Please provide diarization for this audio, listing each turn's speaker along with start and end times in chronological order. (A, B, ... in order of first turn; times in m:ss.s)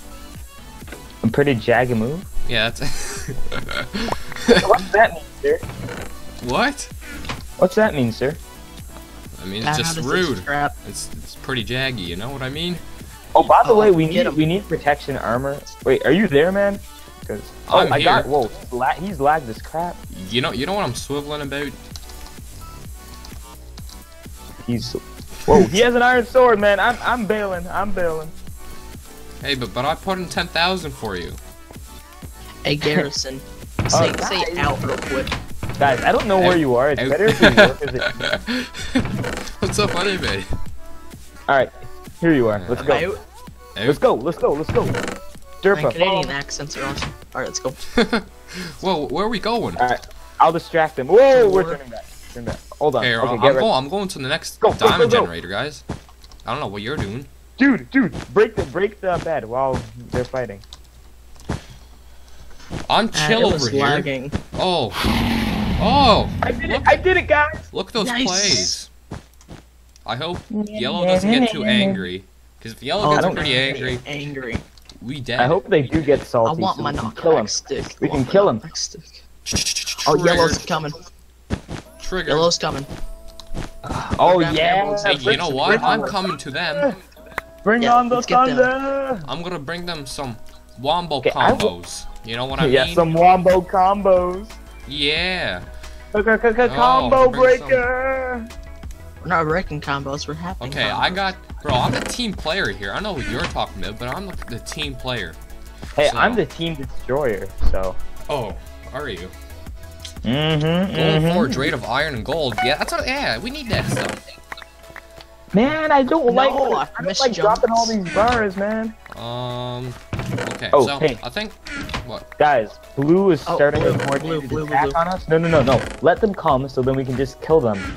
0:01.2-0:02.3 A
0:02.4-0:04.8 B
0:04.6-0:05.6 A
0:06.4-0:06.9 B
0:07.6-0:08.4 A
0:09.4-0:12.8 B
0:09.6-0:10.7 C
0:13.3-0:20.0 A
0:13.6-0:14.4 C
0:17.7-0:18.3 B
0:20.1-0:21.8 B
0:24.6-0:28.3 A
0:29.4-0:31.4 B
0:32.6-0:35.3 C
0:33.9-0:34.7 A
0:35.8-0:38.2 A
0:36.4-0:40.5 B
0:41.5-0:43.1 A
0:42.5-0:43.1 B
0:42.8-0:43.2 C
0:43.7-0:44.0 B
0:43.8-0:45.0 A
0:45.6-0:46.3 A
0:45.7-0:47.8 C
0:47.9-0:49.8 B
0:49.8-0:53.7 A
0:51.3-0:51.8 C
0:53.0-0:55.8 B
0:54.6-0:55.3 A
0:56.4-0:57.3 B
0:57.6-1:00.6 A
1:02.9-1:05.1 B
1:03.1-1:04.3 C
1:05.8-1:07.0 B
1:06.4-1:07.6 A
1:07.7-1:08.9 B
1:08.0-1:08.7 C
1:10.0-1:14.0 B
1:10.5-1:12.0 A
1:13.0-1:14.6 C
1:13.1-1:13.5 A
1:15.0-1:15.6 B
1:15.4-1:18.6 A
1:16.4-1:19.2 C
1:19.4-1:20.6 B
1:20.0-1:21.0 C
1:22.0-1:22.5 B
1:22.3-1:22.9 C
1:23.8-1:26.2 A
1:24.2-1:26.1 C
1:25.0-1:27.0 B
1:27.6-1:29.3 A
1:27.8-1:28.7 C
1:29.2-1:33.1 B
1:31.2-1:31.7 A
1:32.6-1:34.6 A
1:34.8-1:35.6 B
1:36.1-1:38.5 A
1:36.6-1:37.8 B
1:39.2-1:41.3 C
1:40.6-1:45.4 B
1:46.0-1:48.0 A
1:46.0-1:46.4 B
1:48.3-1:49.3 B
1:50.2-1:51.7 A
1:50.9-1:54.2 B
1:55.5-1:58.9 A
1:56.3-1:58.0 C
1:59.1-2:02.3 B
2:00.7-2:01.2 A
2:02.4-2:07.9 A
2:03.4-2:05.0 C